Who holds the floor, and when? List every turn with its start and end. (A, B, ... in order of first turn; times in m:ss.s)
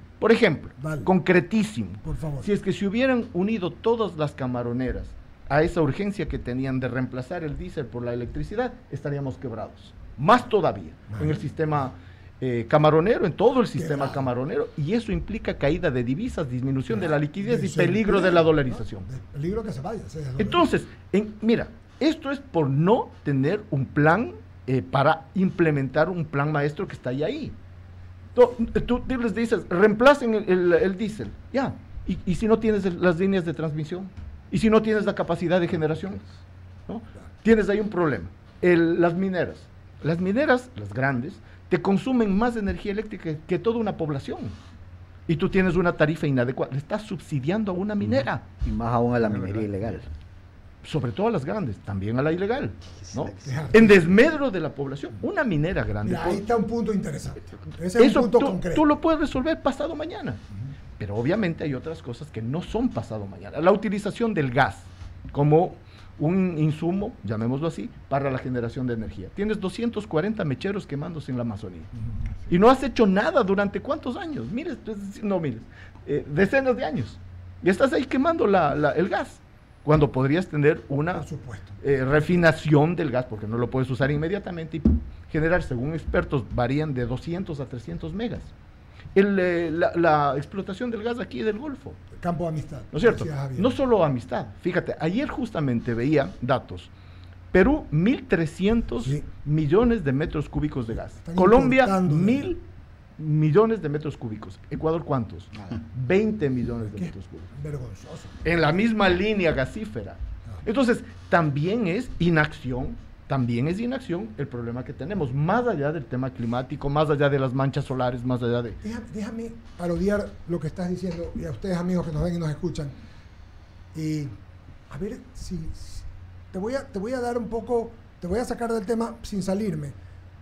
0:00.2-0:19.0 A
0:00.8-0:01.1 B
0:02.0-0:02.5 B
0:11.1-0:11.5 B
0:13.8-0:14.3 B
0:16.9-0:20.7 B
0:20.4-0:27.5 A
0:28.3-0:36.3 A
0:36.9-0:44.6 A
0:45.3-0:48.4 A
0:48.6-0:50.1 C
0:50.8-0:56.4 A
0:53.0-0:53.8 C
0:53.4-0:54.2 B
0:56.0-0:58.9 B
0:58.0-1:00.4 A
1:01.0-1:11.9 A
1:12.5-1:21.2 A
1:21.1-1:21.8 B
1:21.8-1:28.5 A
1:29.1-1:32.0 A
1:32.1-1:33.8 B
1:32.9-1:36.9 A
1:37.5-1:42.6 A
1:41.2-1:42.5 B
1:43.2-1:47.4 A
1:47.0-1:48.7 B
1:48.4-1:58.8 A
1:58.8-2:03.0 B
2:03.9-2:04.3 B
2:04.9-2:10.0 B